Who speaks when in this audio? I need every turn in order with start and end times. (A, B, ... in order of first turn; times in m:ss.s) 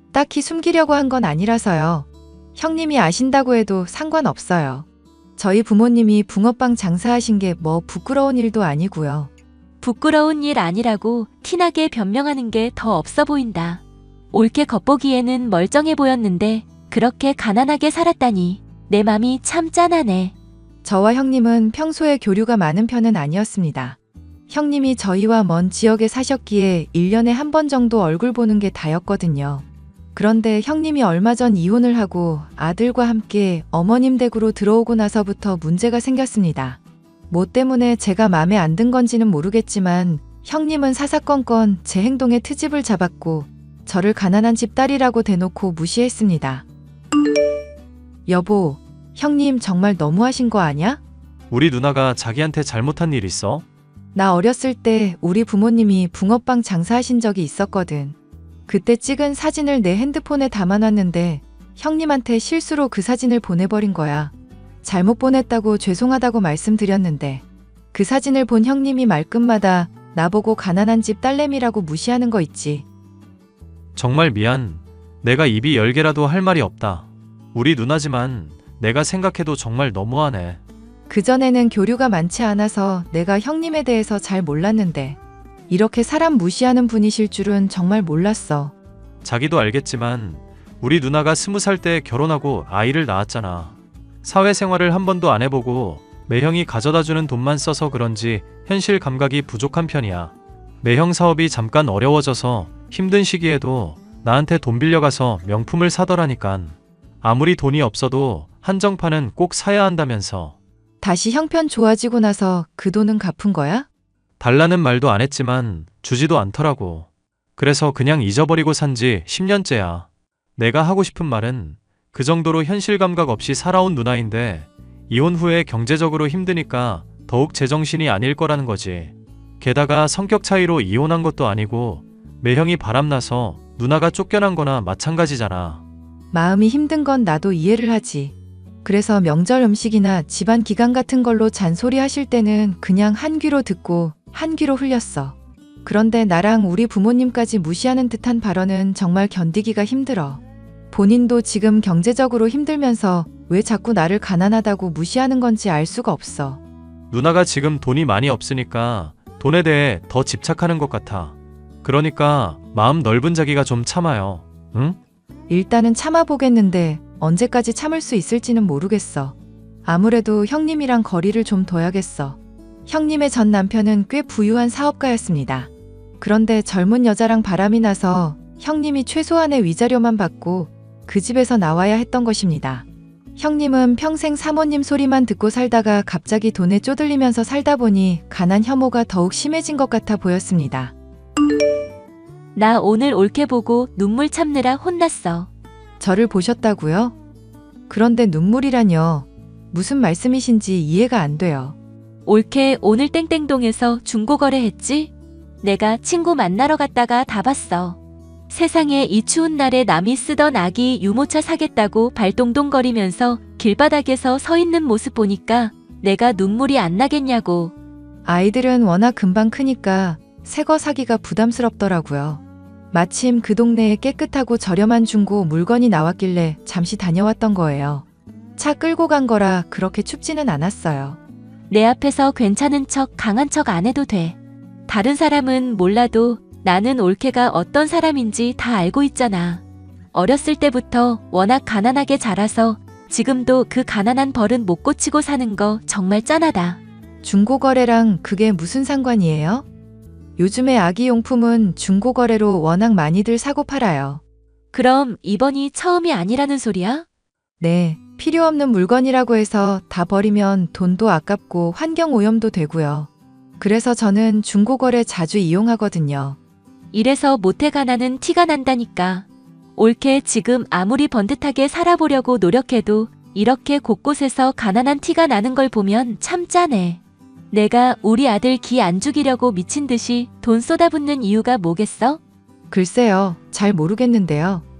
0:00.1-0:09.3 A
0:09.8-0:13.8 B
0:14.3-0:20.3 B
0:20.8-0:24.0 A
0:24.5-0:46.6 A
0:48.3-0:51.0 A
0:51.5-0:53.6 C
0:54.1-0:58.2 A
0:58.7-1:04.3 A
1:04.8-1:12.8 A
1:14.0-1:20.6 C
1:21.1-1:25.2 A
1:25.7-1:28.7 A
1:29.2-1:50.6 C
1:51.0-1:53.9 A
1:54.4-2:15.8 C
2:16.3-2:30.4 A
2:30.9-2:36.6 A
2:37.1-2:45.0 C
2:45.5-2:55.7 A
2:56.2-3:02.8 A
3:03.4-3:10.9 A
3:12.5-3:15.5 B
3:16.0-3:17.2 A
3:17.9-3:21.7 A
3:22.2-3:25.1 B
3:25.6-3:28.0 B
3:28.5-3:37.7 B
3:38.2-3:42.4 A
3:42.9-3:48.0 A
3:48.6-3:51.2 A
3:51.7-3:54.4 B
3:54.9-3:59.6 B
4:00.1-4:06.8 B
4:07.2-4:09.6 A
4:10.4-4:14.2 A
4:14.7-4:17.0 B
4:17.6-4:26.4 A
4:26.9-4:37.0 B
4:37.5-4:42.2 B
4:42.7-4:44.6 A